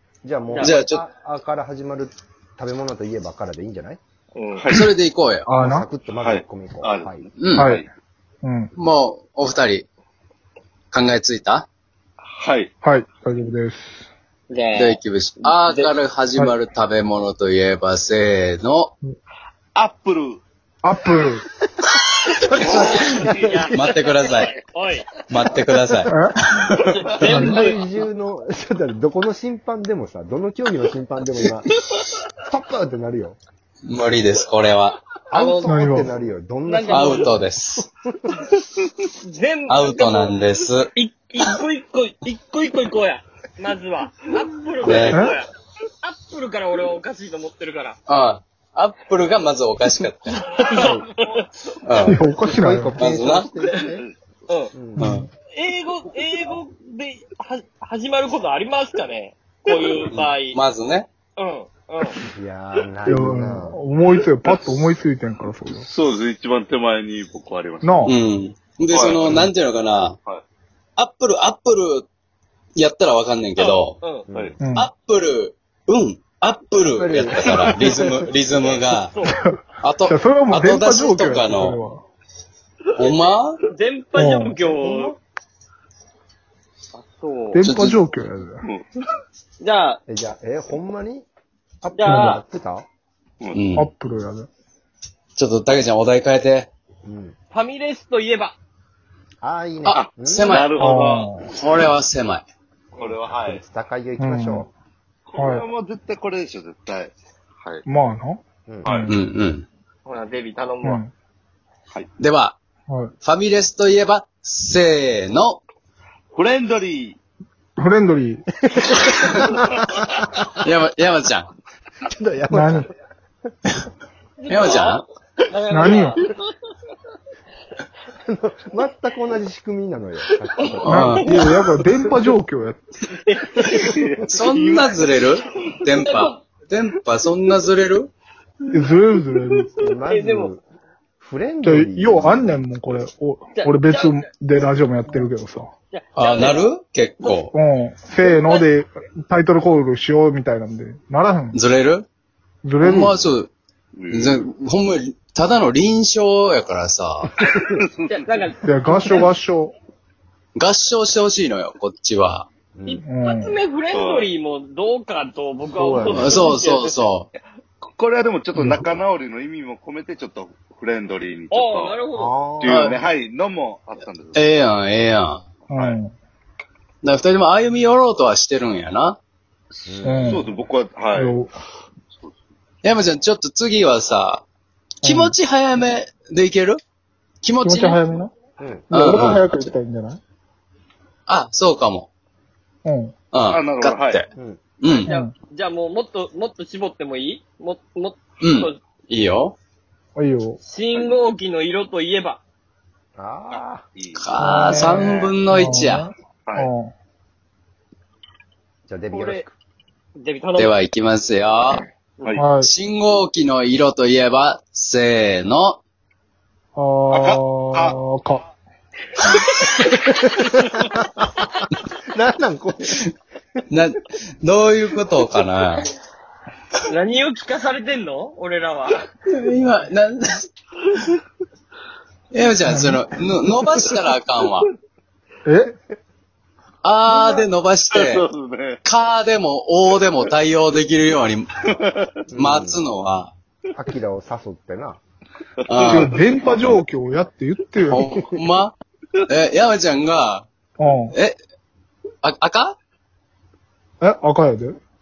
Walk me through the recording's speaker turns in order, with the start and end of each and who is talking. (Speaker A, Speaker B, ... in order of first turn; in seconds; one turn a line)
Speaker A: 0.2-4.0
Speaker B: 0.6-1.0
Speaker C: 4.3-4.7
Speaker D: 4.6-4.9
Speaker B: 4.7-5.5
Speaker E: 5.5-5.9
Speaker A: 5.6-7.3
Speaker D: 6.2-7.9
Speaker B: 7.4-7.7
Speaker E: 7.5-7.8
Speaker E: 8.4-8.7
Speaker B: 8.8-9.9
Speaker B: 10.9-11.7
Speaker D: 12.2-12.7
Speaker E: 12.8-14.1
Speaker C: 14.5-16.0
Speaker B: 14.8-18.9
Speaker D: 19.8-20.4
Speaker E: 20.8-21.5
Speaker D: 22.6-23.5
Speaker A: 22.6-23.6
Speaker C: 22.8-25.1
Speaker B: 23.7-24.6
Speaker B: 25.3-26.8
Speaker E: 26.1-26.3
Speaker C: 26.7-27.9
Speaker E: 27.2-27.7
Speaker A: 27.4-31.7
Speaker A: 32.4-33.4
Speaker B: 33.9-35.0
Speaker A: 35.3-38.5
Speaker C: 35.3-35.7
Speaker E: 35.6-36.1
Speaker C: 36.7-37.4
Speaker B: 36.9-37.9
Speaker C: 39.2-40.4
Speaker B: 39.7-40.9
Speaker C: 40.9-45.5
Speaker B: 44.8-45.2
Speaker E: 45.1-45.4
Speaker C: 46.0-48.0
Speaker B: 48.1-50.4
Speaker C: 50.3-51.4
Speaker A: 50.7-51.1
Speaker B: 51.8-52.2
Speaker E: 52.0-53.1
Speaker A: 52.3-54.1
Speaker B: 53.0-53.5
Speaker D: 53.8-54.1
Speaker C: 54.5-54.7
Speaker A: 54.7-55.1
Speaker E: 55.0-55.3
Speaker B: 55.0-55.3
Speaker C: 55.5-60.6
Speaker B: 60.1-61.1
Speaker C: 61.4-62.2
Speaker A: 62.2-63.8
Speaker E: 63.1-65.9
Speaker D: 65.7-68.2
Speaker E: 67.8-68.2
Speaker B: 68.0-70.2
Speaker D: 68.9-69.5
Speaker B: 71.0-72.1
Speaker B: 72.8-74.0
Speaker C: 73.6-74.3
Speaker A: 74.3-74.5
Speaker E: 74.6-74.9
Speaker B: 74.7-79.1
Speaker A: 76.9-78.3
Speaker C: 78.6-79.4
Speaker E: 79.2-82.0
Speaker B: 79.8-81.8
Speaker B: 82.9-83.6
Speaker C: 83.7-85.2
Speaker E: 84.2-84.6
Speaker A: 84.8-85.1
Speaker C: 86.9-87.6
Speaker E: 87.5-88.7
Speaker B: 87.6-88.0
Speaker C: 89.6-90.0
Speaker A: 90.1-91.2
Speaker A: 91.8-92.9
Speaker C: 91.9-92.4
Speaker E: 92.1-92.4
Speaker D: 93.4-93.7
Speaker B: 93.5-93.9
Speaker E: 93.7-94.5
Speaker B: 95.4-96.7
Speaker A: 97.0-97.4
Speaker C: 97.5-98.6
Speaker A: 99.4-100.6
Speaker B: 99.8-100.9
Speaker D: 99.9-101.4
Speaker E: 100.8-101.5
Speaker B: 101.4-102.5
Speaker D: 103.0-103.6
Speaker A: 103.4-104.7
Speaker E: 104.2-104.7
Speaker D: 105.3-107.8
Speaker E: 105.3-105.6
Speaker E: 107.8-109.1
Speaker A: 108.7-108.9
Speaker D: 108.8-109.1
Speaker B: 109.1-109.7
Speaker C: 110.1-111.0
Speaker E: 110.8-111.1
Speaker B: 112.2-112.6
Speaker B: 113.2-115.6
Speaker D: 116.3-117.2
Speaker E: 117.8-118.4
Speaker A: 118.8-119.5
Speaker B: 120.6-121.5
Speaker A: 122.1-122.9
Speaker E: 122.5-122.9
Speaker C: 124.4-126.4
Speaker B: 124.5-125.0
Speaker E: 125.7-126.2
Speaker A: 128.3-131.4
Speaker B: 130.8-131.4
Speaker E: 130.9-132.8
Speaker C: 133.1-133.8
Speaker D: 133.6-135.9
Speaker B: 134.3-138.1
Speaker C: 136.0-136.4
Speaker E: 138.7-139.7
Speaker A: 139.8-140.6
Speaker C: 140.1-140.5
Speaker A: 141.2-142.6
Speaker E: 141.6-145.7
Speaker C: 143.5-144.3
Speaker C: 145.9-146.6
Speaker B: 146.2-147.5
Speaker E: 147.5-151.6
Speaker C: 148.2-148.6
Speaker B: 151.5-152.1
Speaker E: 152.6-153.1
Speaker B: 152.8-153.5
Speaker D: 153.9-154.4
Speaker B: 154.1-157.4
Speaker D: 157.4-158.5
Speaker C: 158.1-159.3
Speaker E: 158.6-159.7
Speaker B: 160.6-162.5
Speaker A: 162.8-163.0
Speaker C: 162.9-167.1
Speaker E: 163.1-163.6
Speaker D: 163.9-164.3
Speaker A: 165.8-166.4
Speaker B: 166.1-167.3
Speaker D: 167.8-172.0
Speaker E: 168.6-168.9
Speaker C: 171.5-172.3
Speaker A: 172.1-172.9
Speaker D: 172.6-174.5
Speaker B: 172.7-173.0
Speaker B: 174.3-175.4
Speaker D: 175.7-176.0
Speaker E: 175.7-176.1
Speaker B: 177.0-179.2
Speaker D: 179.7-181.4
Speaker A: 179.9-180.4
Speaker E: 180.0-180.5
Speaker E: 181.1-181.5
Speaker D: 182.1-182.4
Speaker B: 182.8-184.4
Speaker E: 185.0-185.4
Speaker B: 185.0-186.8
Speaker B: 187.4-188.0
Speaker E: 187.6-188.3
Speaker A: 188.6-188.8
Speaker E: 188.9-190.2
Speaker B: 188.9-189.7
Speaker B: 191.3-192.1
Speaker E: 192.8-193.1
Speaker B: 193.3-194.3
Speaker D: 193.5-194.2
Speaker A: 194.3-194.6
Speaker B: 194.8-195.1
Speaker C: 194.9-198.8
Speaker E: 195.1-195.3
Speaker B: 198.4-199.6
Speaker E: 200.2-200.6
Speaker C: 200.6-202.4
Speaker A: 203.2-203.8
Speaker D: 203.5-204.2
Speaker B: 204.1-206.1
Speaker E: 204.4-206.9
Speaker D: 204.8-205.3
Speaker A: 208.9-209.5
Speaker C: 209.1-209.4
Speaker C: 210.2-210.7
Speaker B: 210.6-211.8
Speaker E: 212.4-212.7
Speaker B: 212.6-215.8
Speaker E: 216.8-218.4
Speaker D: 217.1-218.0
Speaker C: 219.5-219.9
Speaker A: 222.1-223.0
Speaker B: 223.7-225.9
Speaker C: 226.9-229.1
Speaker B: 229.3-231.0
Speaker B: 232.3-234.7
Speaker E: 232.6-233.0
Speaker E: 235.4-235.8
Speaker B: 236.8-238.3
Speaker D: 237.1-238.8
Speaker B: 238.8-241.5
Speaker D: 241.7-242.1
Speaker A: 242.3-242.8
Speaker B: 242.3-243.3
Speaker A: 243.7-245.0
Speaker D: 245.7-246.8
Speaker B: 245.7-246.1
Speaker E: 245.9-248.1
Speaker B: 247.9-250.5
Speaker E: 250.8-251.1
Speaker B: 252.2-252.8
Speaker E: 254.0-254.8